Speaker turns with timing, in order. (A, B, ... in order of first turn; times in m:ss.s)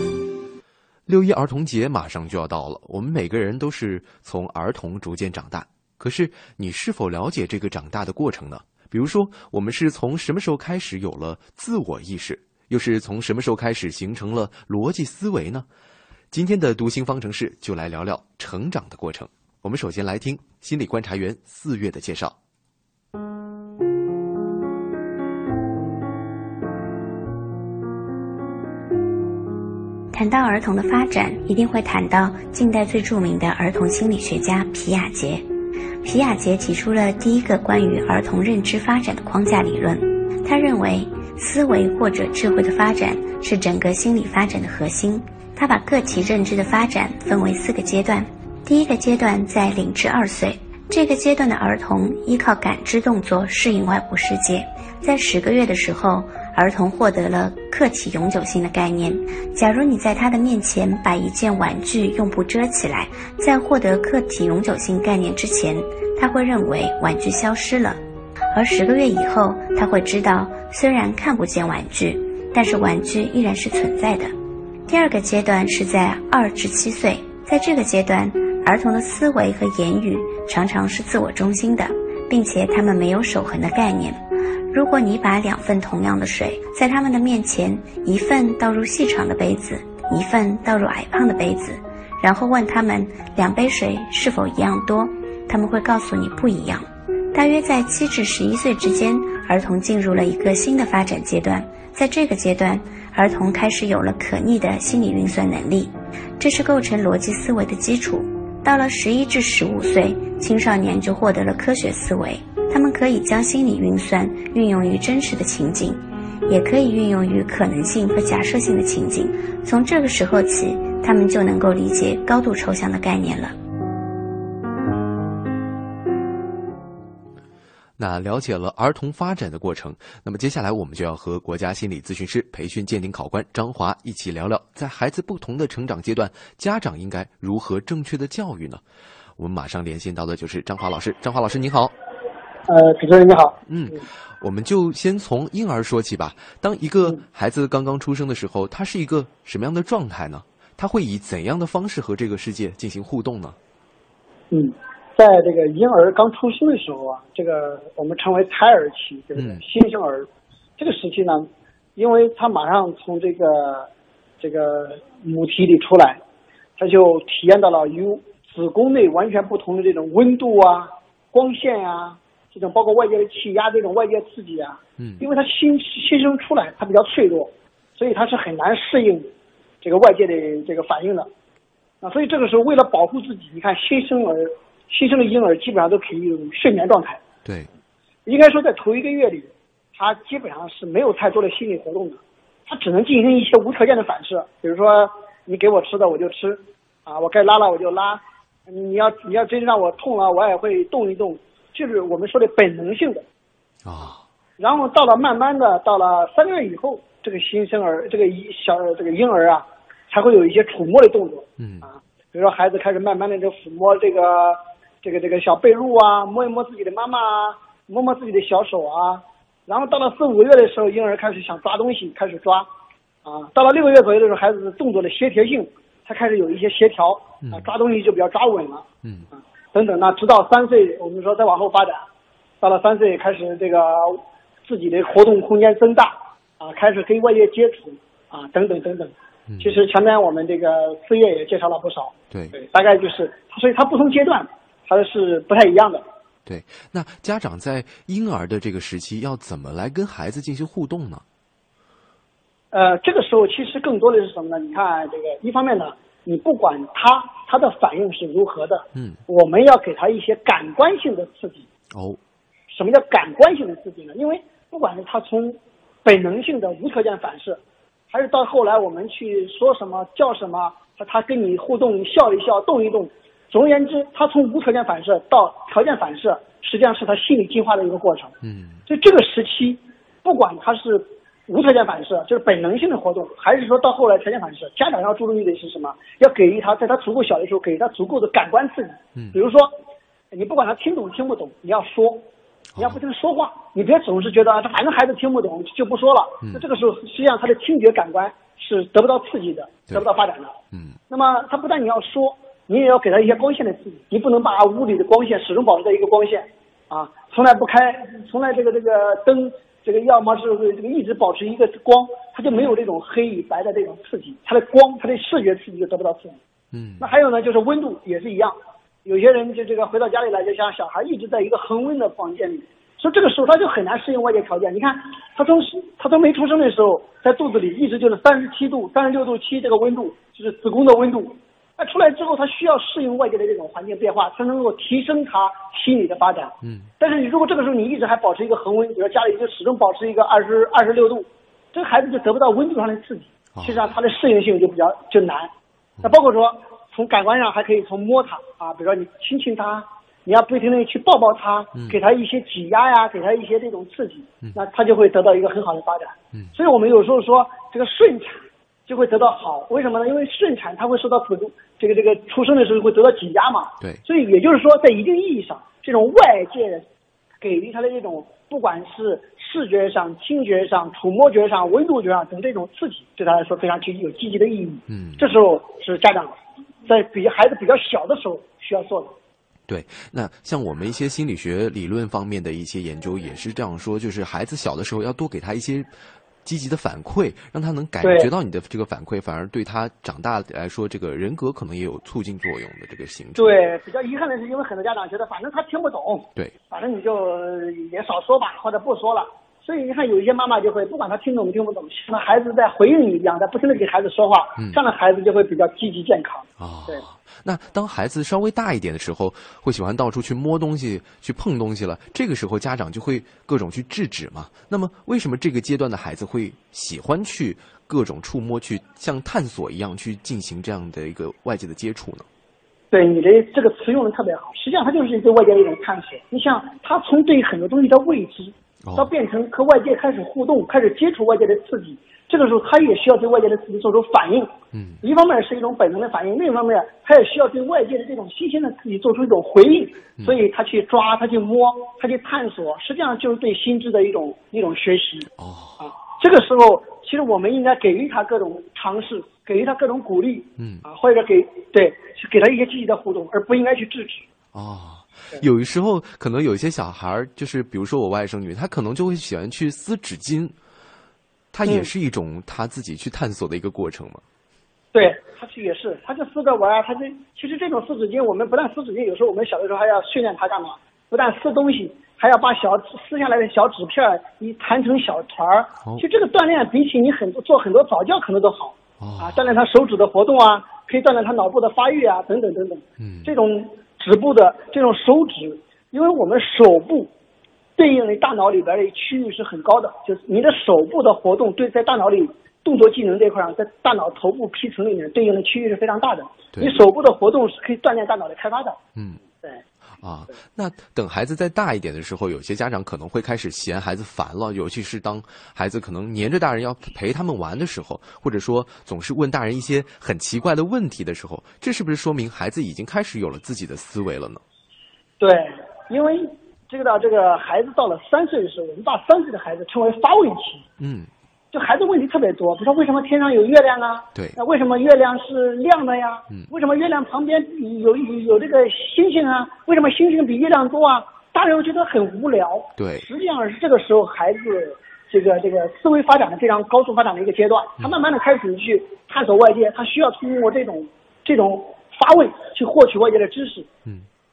0:01.1-0:15.7 A
0:16.3-0:22.4 A
0:30.1-0:35.4 B
0:36.0-1:08.0 B
1:08.5-1:14.3 B
1:14.9-2:03.6 B
2:08.0-2:18.8 A
2:19.4-2:21.9 A
2:22.7-2:23.6 C
2:23.7-2:33.6 A
2:34.5-2:43.9 C
2:39.4-2:39.6 A
2:44.4-2:46.2 C
2:46.8-2:59.3 C
2:59.8-3:01.3 C
3:02.0-3:07.2 C
3:07.4-3:07.7 A
3:08.3-3:23.2 C
3:23.8-3:24.2 A
3:24.6-3:42.7 C
3:31.6-3:31.9 A
3:43.2-3:48.8 C
3:47.4-3:47.7 A
3:49.7-3:52.0 C
3:52.6-4:06.0 C
3:59.5-3:59.8 A
4:06.5-4:11.2 A
4:12.7-4:21.7 C
4:21.9-4:22.2 A
4:22.7-4:27.6 C
4:28.1-4:38.3 C
4:38.4-4:38.8 A
4:38.9-4:49.8 C
4:50.3-5:00.6 C
5:00.7-5:01.0 A
5:01.1-5:16.4 C
5:16.7-5:17.1 A
5:17.0-5:45.5 C
5:36.6-5:36.9 A
5:43.6-5:43.9 A
5:46.0-6:06.8 C
6:07.4-6:19.2 C
6:14.9-6:15.2 A
6:19.7-6:25.9 A
6:26.4-6:33.6 A
6:28.0-6:28.3 C
6:33.4-6:47.0 C
6:46.6-7:02.3 A
7:02.9-7:25.3 C
7:08.8-7:09.1 A
7:14.7-7:15.0 A
7:25.4-7:25.8 A
7:25.8-7:34.2 C
7:30.6-7:30.8 A
7:34.5-7:40.6 A
7:41.5-7:44.2 A
7:41.6-7:41.9 C
7:44.9-8:07.1 C
7:59.0-7:59.4 A
8:03.0-8:03.3 A
8:07.8-8:18.8 C
8:19.0-8:19.2 A
8:20.0-8:34.4 A
8:35.2-8:40.6 C
8:40.8-8:41.1 A
8:41.5-9:03.7 C
8:52.8-8:53.1 A